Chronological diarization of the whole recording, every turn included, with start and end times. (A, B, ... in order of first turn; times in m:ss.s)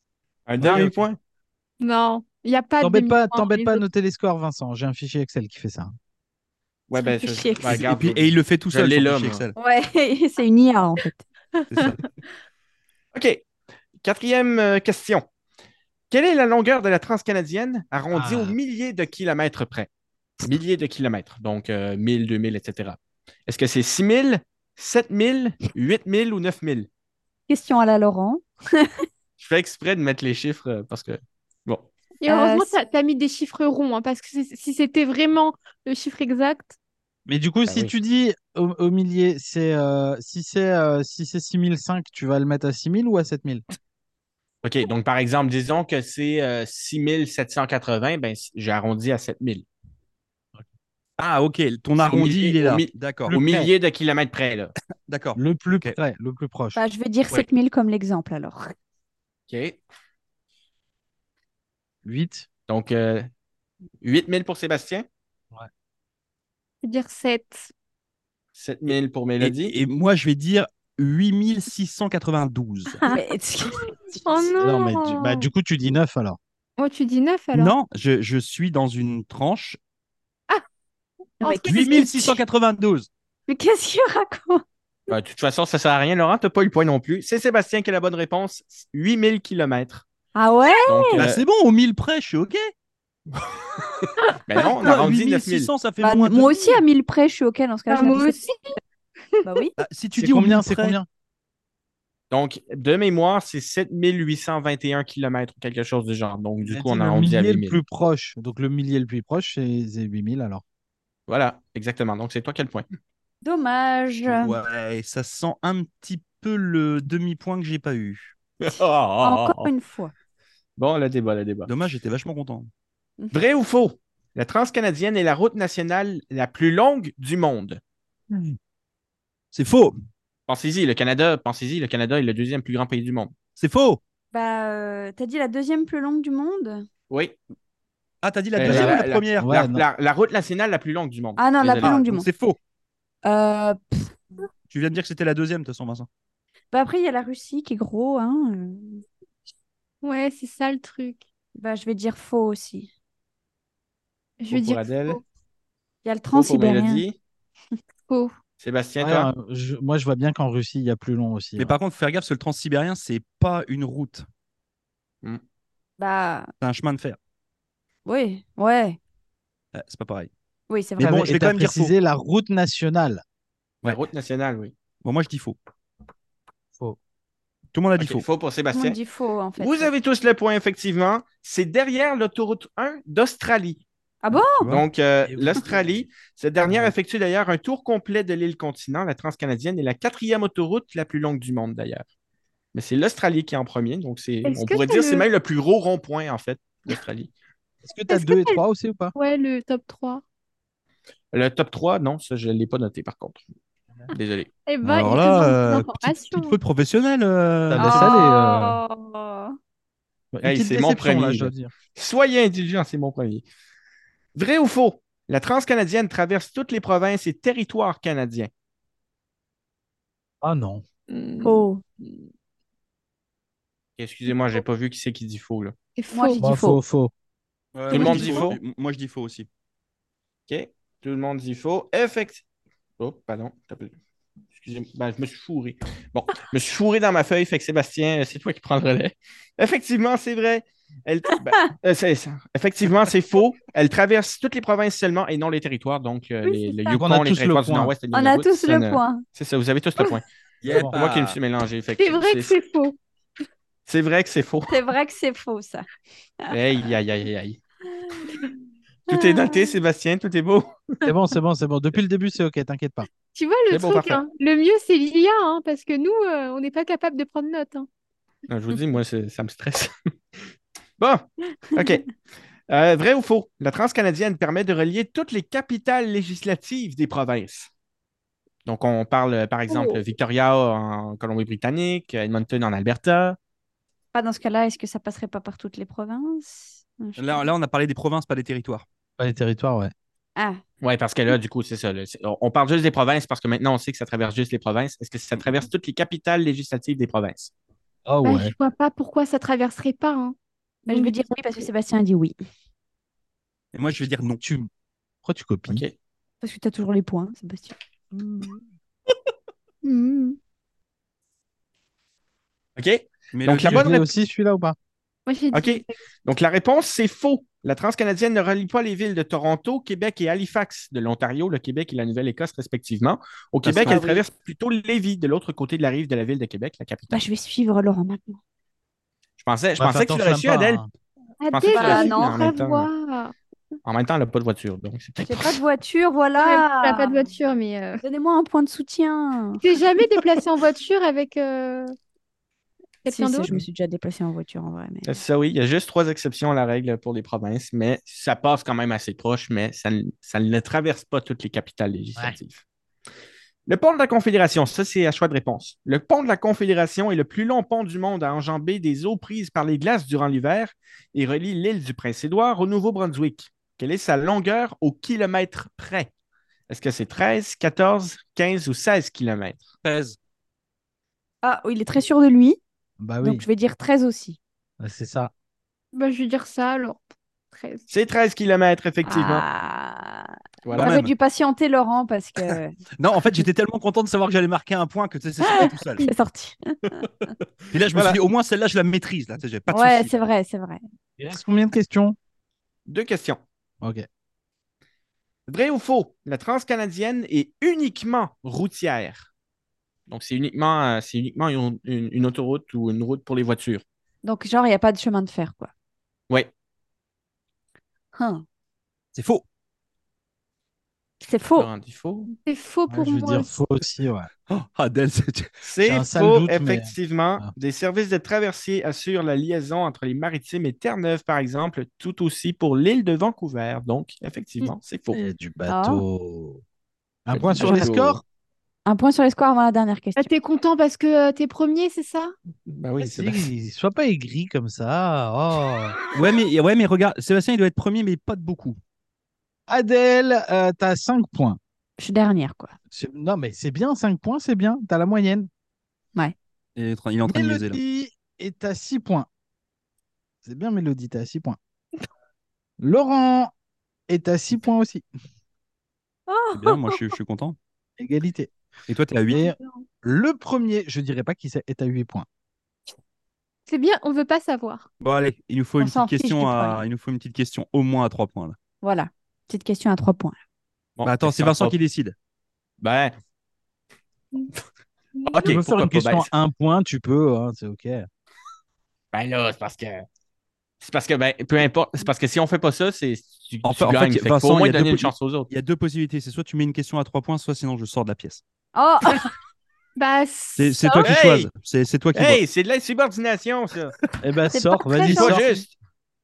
0:00.5-0:01.2 A
0:00.6-0:01.0 B
0:01.8-0:03.8 C
0:02.8-0:05.9 B
0:06.9-0:09.4 A
0:07.0-0:07.8 D
0:07.6-0:09.5 E
0:09.6-0:11.2 D
0:11.7-0:12.0 E
0:13.1-0:13.4 A
0:14.0-0:15.2 A
0:16.1-0:19.9 A
0:18.1-0:18.6 B
0:20.4-0:26.9 A
0:27.5-0:28.9 D
0:29.4-0:31.9 A
0:32.2-0:36.7 C
0:32.3-0:32.7 D
0:37.3-0:43.6 B
0:37.7-0:37.9 A
0:44.6-0:49.6 A
0:51.2-0:53.4 E
0:52.0-0:54.7 A
0:53.3-0:53.7 B
0:55.1-0:56.0 E
0:55.4-0:56.8 B
0:56.7-0:58.7 D
0:59.5-0:59.8 A
1:02.0-1:02.4 B
1:02.7-1:03.3 A
1:04.0-1:05.0 A
1:06.8-1:07.7 C
1:08.5-1:09.8 A
1:09.4-1:13.0 E
1:13.1-1:14.5 D
1:14.2-1:15.4 C
1:14.6-1:16.4 B
1:16.8-1:17.7 C
1:17.5-1:19.8 E
1:21.4-1:22.4 D
1:21.4-1:22.0 C
1:21.6-1:23.1 E
1:23.5-1:24.6 D
1:25.1-1:30.0 A
1:30.4-1:31.2 D
1:30.8-1:31.4 A
1:31.1-1:32.7 E
1:34.5-1:35.7 A
1:34.6-1:36.7 E
1:36.0-1:38.3 D
1:37.9-1:38.6 C
1:39.4-1:39.8 D
1:39.8-1:41.0 E
1:40.2-1:41.1 B
1:42.3-1:47.8 A
1:46.6-1:50.6 B
1:51.3-1:52.9 A
1:53.4-1:54.6 D
1:54.3-1:58.3 E
1:58.6-1:59.7 A
1:59.2-2:00.1 D
2:00.8-2:01.8 A
2:01.6-2:02.7 E
2:03.3-2:07.8 A
2:09.5-2:09.9 E
2:10.5-2:13.3 A
2:13.6-2:14.0 E
2:14.3-2:16.8 D
2:17.1-2:17.4 A
2:18.2-2:19.5 E
2:18.5-2:22.0 A
2:18.6-2:19.8 B
2:21.4-2:22.3 D
2:21.8-2:22.6 E
2:23.2-2:24.2 D
2:24.7-2:26.1 E
2:26.7-2:29.0 D
2:30.0-2:31.2 C
2:31.6-2:32.9 D
2:34.4-2:35.2 C
2:34.5-2:35.2 A
2:36.0-2:37.0 D
2:36.3-2:37.2 A
2:38.1-2:38.4 C
2:38.6-2:39.3 A
2:39.0-2:41.7 B
2:41.6-2:44.2 E
2:46.0-2:46.5 D
2:46.6-2:47.2 E
2:48.0-2:49.0 D
2:49.7-2:50.3 E
2:50.7-2:51.2 D
2:51.0-2:53.2 B
2:51.0-2:51.9 E
2:53.9-2:54.7 A
2:55.0-2:55.6 E
2:57.7-2:58.2 E
2:58.0-2:59.0 A
2:58.7-2:59.9 D
2:59.6-3:03.8 A
3:04.2-3:04.7 D
3:04.4-3:04.8 E
3:04.7-3:12.0 A
3:05.2-3:06.0 B
3:06.6-3:06.9 B
3:12.7-3:17.3 A
3:14.4-3:15.3 C
3:17.8-3:19.1 B
3:18.1-3:18.6 C
3:19.1-3:20.2 C
3:21.3-3:23.4 A
3:24.1-3:24.5 A
3:24.6-3:26.6 C
3:24.8-3:28.2 E
3:27.7-3:28.8 B
3:27.8-3:29.6 D
3:30.3-3:31.7 B
3:30.4-3:33.4 A
3:34.4-3:38.5 A
3:40.4-3:40.8 B
3:41.1-3:41.6 C
3:41.4-3:41.8 D
3:44.0-3:45.8 A
3:46.0-3:46.4 C
3:46.1-3:46.8 D
3:46.4-3:47.1 B
3:47.7-3:49.5 E
3:47.9-3:48.6 A
3:50.5-3:52.4 A
3:53.0-3:53.9 A
3:54.5-4:12.5 A
4:06.4-4:07.0 C
4:06.9-4:07.9 B
4:08.1-4:09.2 D
4:10.6-4:11.0 B
4:10.6-4:11.4 E
4:12.0-4:13.0 C
4:13.9-4:14.7 A
4:14.7-4:15.9 D
4:16.5-4:17.6 A
4:19.1-4:20.6 A
4:19.1-4:19.8 D
4:21.0-4:23.1 B
4:23.3-4:27.9 C
4:23.7-4:24.2 A
4:28.5-4:29.9 A
4:31.0-4:32.0 A
4:32.7-4:37.7 A
4:38.6-4:43.4 A
4:39.7-4:40.0 C
4:44.1-4:47.4 D
4:47.2-4:48.8 E
4:49.2-4:49.9 B
4:50.8-4:57.5 A
4:58.0-4:58.5 B
4:58.2-5:00.3 C
5:00.9-5:02.4 D
5:00.9-5:01.2 C
5:03.7-5:04.4 E
5:04.3-5:04.7 B
5:05.2-5:05.8 B
5:05.7-5:05.9 A
5:06.4-5:08.4 D
5:09.8-5:10.4 D
5:12.8-5:14.1 A
5:13.3-5:13.9 E
5:13.6-5:14.8 B
5:15.3-5:15.9 C
5:15.5-5:27.2 A
5:23.6-5:24.2 E
5:27.1-5:28.4 D
5:29.4-5:30.8 A
5:29.8-5:30.9 B
5:31.4-5:33.3 C
5:31.5-5:32.9 A
5:31.6-5:32.5 D
5:33.8-5:35.6 A
5:35.2-5:37.3 D
5:36.4-5:38.0 C
5:38.0-5:39.6 D
5:39.6-5:41.9 C
5:43.0-5:43.6 C
5:43.1-5:45.2 D
5:45.0-5:52.6 A
5:53.7-6:06.1 A
6:06.7-6:09.6 A
6:09.8-6:10.2 E
6:11.4-6:12.6 D
6:13.0-6:13.4 B
6:13.2-6:14.4 D
6:14.8-6:15.3 B
6:15.9-6:17.8 C
6:17.9-6:19.4 A
6:19.0-6:22.8 D
6:20.6-6:21.0 A
6:23.0-6:26.0 E
6:25.4-6:27.0 D
6:27.7-6:30.1 E
6:27.9-6:28.2 A
6:29.7-6:30.8 D
6:31.2-6:32.2 B
6:32.9-6:33.4 A
6:35.5-6:39.3 A
6:40.1-6:43.8 A
6:44.2-6:45.7 D
6:48.1-6:48.4 D
6:49.1-6:49.4 E
6:51.2-6:51.7 D
6:51.6-6:52.3 A
6:52.3-6:53.5 C
6:52.9-6:54.3 B
6:54.5-6:55.5 E
6:55.6-7:05.2 A
6:55.8-6:57.5 B
7:05.1-7:06.6 B
7:05.7-7:06.0 D
7:07.2-7:08.2 B
7:07.3-7:08.2 A
7:08.8-7:10.3 D
7:10.2-7:12.3 C
7:12.7-7:13.5 A
7:13.0-7:16.0 B
7:16.1-7:18.8 E
7:19.7-7:21.6 B
7:22.0-7:22.7 D
7:22.9-7:25.5 B
7:26.8-7:27.8 E
7:27.3-7:29.3 B
7:30.4-7:31.6 B
7:32.8-7:33.5 B
7:34.1-7:35.0 B
7:36.3-7:37.0 D
7:36.5-7:37.6 E
7:38.0-7:38.5 B
7:38.9-7:39.5 E
7:39.3-7:42.2 B
7:43.7-7:44.8 C
7:45.0-7:48.6 E
7:45.8-7:46.8 D
7:48.8-7:50.4 D
7:51.0-7:51.7 A
7:51.0-7:52.1 E
7:52.8-7:53.1 A
7:55.2-7:55.5 C
7:55.3-7:56.3 A
7:55.4-7:58.1 B
7:59.1-8:00.0 A
8:00.8-8:05.5 A
8:03.6-8:08.4 E
8:08.7-8:09.2 D
8:10.0-8:11.0 C
8:10.6-8:12.4 E
8:11.0-8:11.5 A
8:12.1-8:13.9 A
8:14.2-8:15.6 B
8:14.5-8:15.6 D
8:15.0-8:15.7 A